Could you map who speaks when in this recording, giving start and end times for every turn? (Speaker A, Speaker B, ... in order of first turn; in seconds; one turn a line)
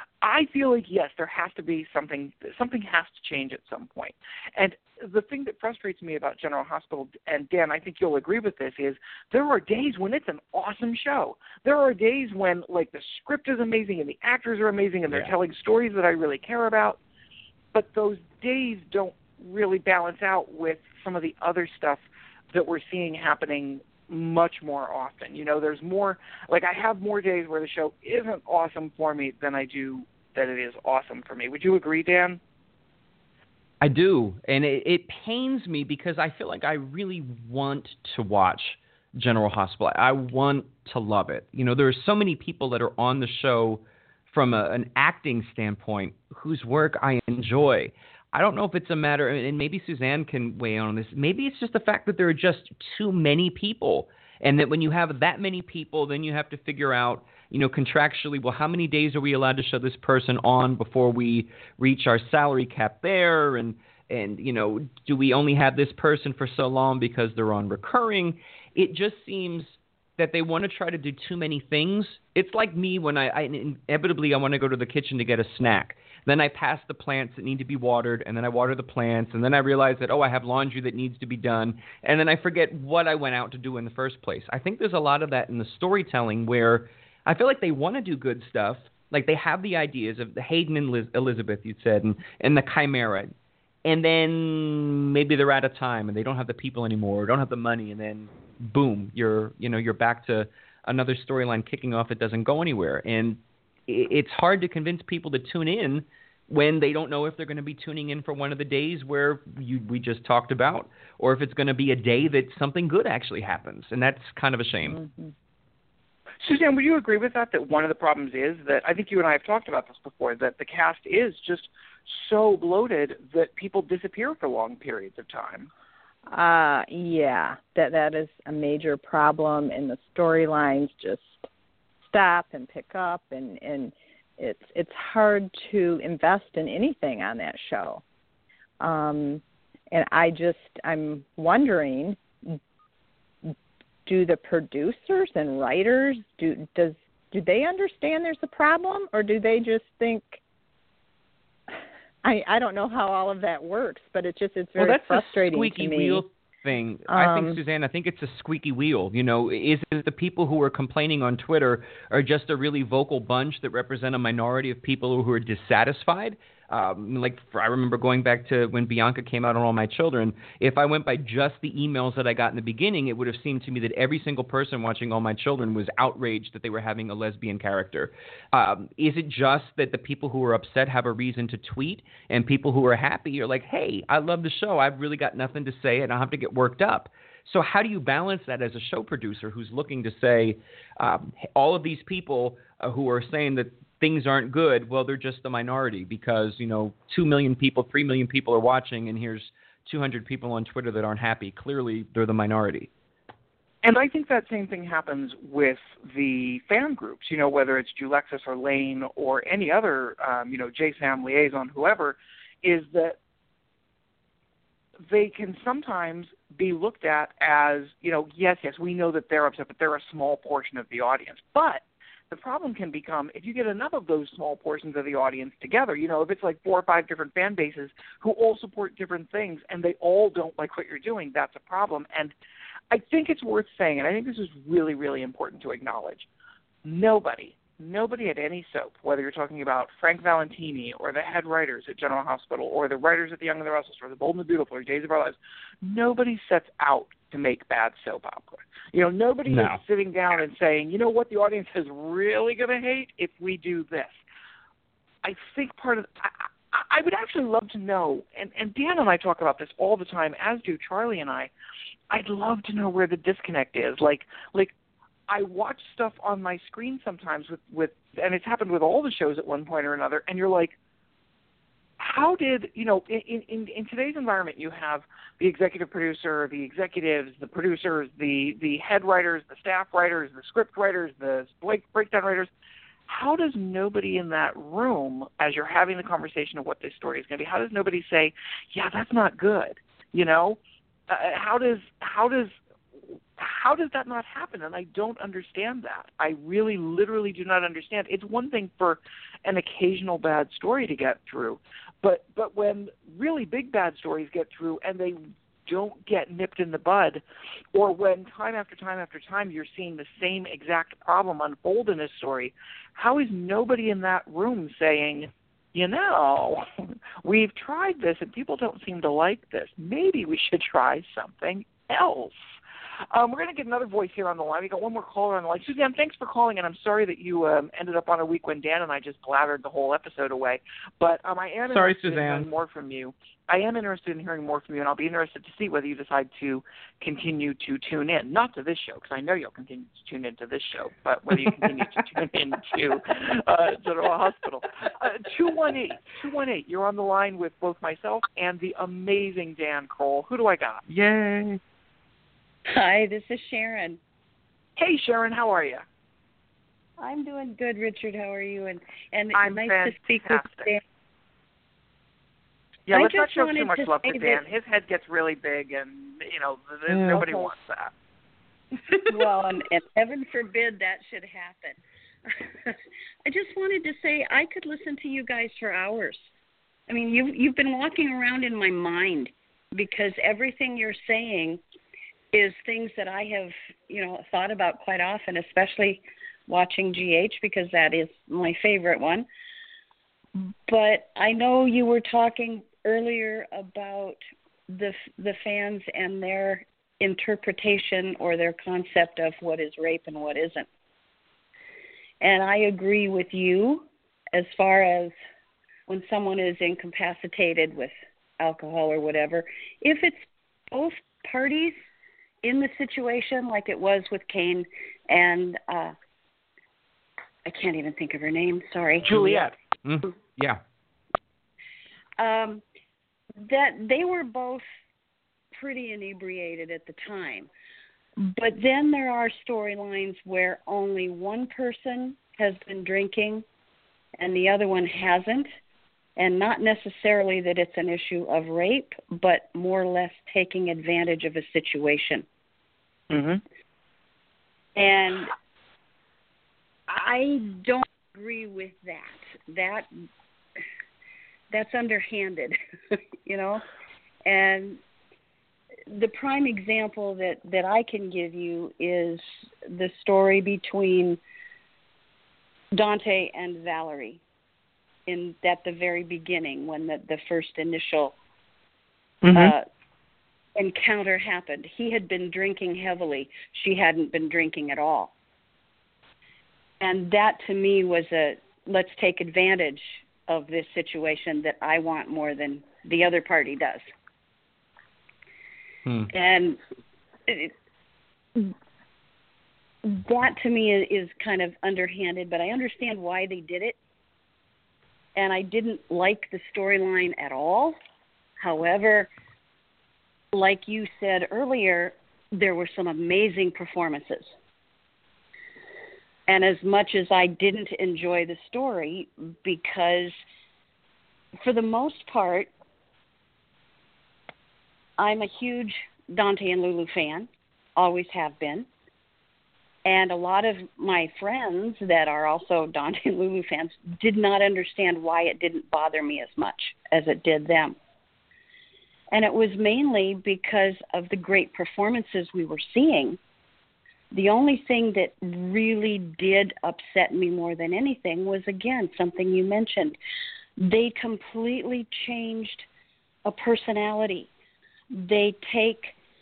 Speaker A: 0.2-17.0
Speaker A: 17.7-32.4
Speaker B: 33.8-93.3
Speaker B: 93.9-115.0
Speaker C: 114.9-115.3
Speaker A: 116.4-125.7
Speaker C: 126.3-131.5
Speaker C: 132.0-138.0
Speaker C: 138.8-142.6
Speaker C: 144.1-150.4
Speaker C: 152.2-156.3
Speaker B: 154.8-202.9
Speaker C: 157.1-157.6
Speaker A: 203.8-213.2
Speaker A: 215.1-232.3
Speaker A: 232.9-236.3
Speaker A: 236.8-254.2
Speaker B: 249.5-249.8
Speaker A: 255.2-261.5
Speaker A: 262.1-264.7
Speaker A: 265.3-270.8
Speaker A: 272.0-282.5
Speaker A: 283.1-292.6
Speaker A: 293.4-307.2
Speaker A: 307.7-316.6
Speaker A: 317.2-322.4
Speaker A: 323.1-350.8
Speaker B: 331.7-332.5
Speaker B: 350.9-351.6
Speaker D: 352.7-354.0
Speaker A: 354.8-355.9
Speaker D: 357.0-360.8
Speaker A: 359.3-360.7
Speaker A: 362.9-367.9
Speaker D: 362.9-364.4
Speaker D: 369.1-376.2
Speaker D: 376.9-381.6
Speaker D: 382.3-389.3
Speaker D: 390.7-394.2
Speaker D: 394.7-400.7
Speaker D: 402.2-405.1
Speaker D: 405.9-411.8
Speaker D: 412.4-415.9
Speaker D: 417.5-419.5
Speaker B: 419.1-420.6
Speaker D: 422.2-422.6
Speaker D: 423.4-424.6
Speaker D: 425.6-427.5
Speaker D: 428.2-433.4
Speaker D: 434.2-435.5
Speaker D: 436.2-442.3
Speaker A: 443.1-443.4
Speaker D: 444.8-445.3
Speaker D: 446.9-449.9
Speaker D: 451.5-453.6
Speaker D: 454.2-454.8
Speaker D: 455.9-461.2
Speaker D: 462.7-464.2
Speaker D: 465.1-468.2
Speaker A: 469.2-469.5
Speaker D: 469.3-469.7
Speaker D: 470.6-475.1
Speaker D: 476.8-483.9
Speaker D: 486.1-486.6
Speaker D: 487.3-487.5
Speaker D: 489.9-493.8
Speaker D: 495.2-497.8
Speaker D: 498.4-499.1
Speaker D: 500.3-504.3
Speaker D: 506.3-510.2
Speaker D: 511.4-512.5
Speaker D: 515.0-518.7
Speaker D: 519.9-527.8
Speaker D: 529.1-533.2
Speaker D: 534.1-540.0
Speaker D: 540.6-542.7
Speaker D: 543.3-544.3
Speaker D: 544.9-546.0